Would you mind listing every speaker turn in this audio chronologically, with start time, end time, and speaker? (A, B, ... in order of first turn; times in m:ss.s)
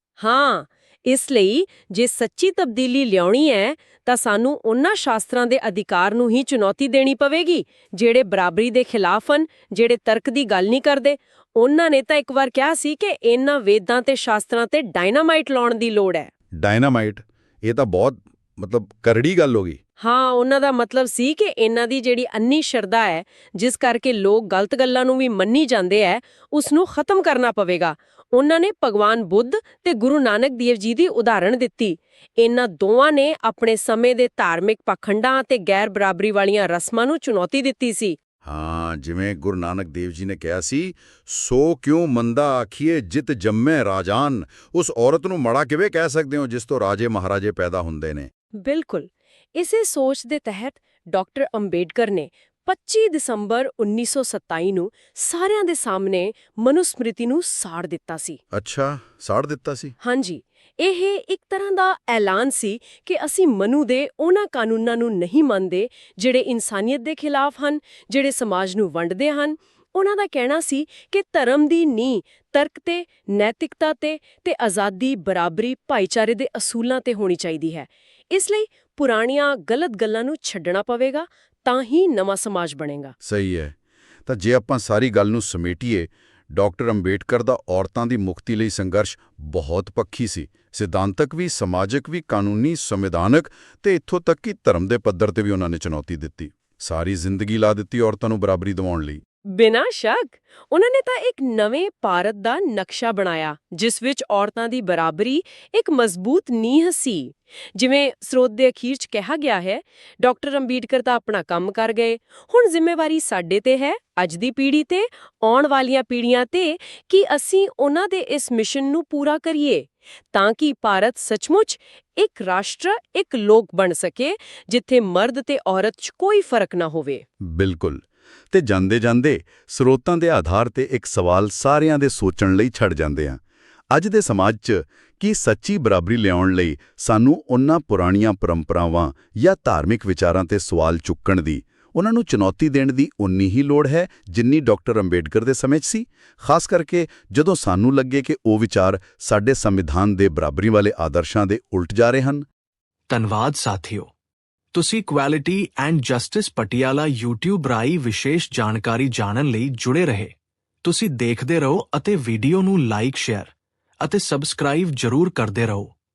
0:00.2-0:16.3 A
0:16.5-0:19.8 B
0:20.0-0:38.2 A
0:38.4-0:48.3 B
0:48.6-0:58.4 A
0:58.5-0:59.9 B
1:00.0-1:23.1 A
1:23.2-1:39.2 B
1:39.5-2:07.2 A
2:07.4-2:32.4 B
2:33.1-2:34.1 C
2:34.7-2:40.3 C
2:40.8-2:43.5 C
2:44.0-2:45.9 C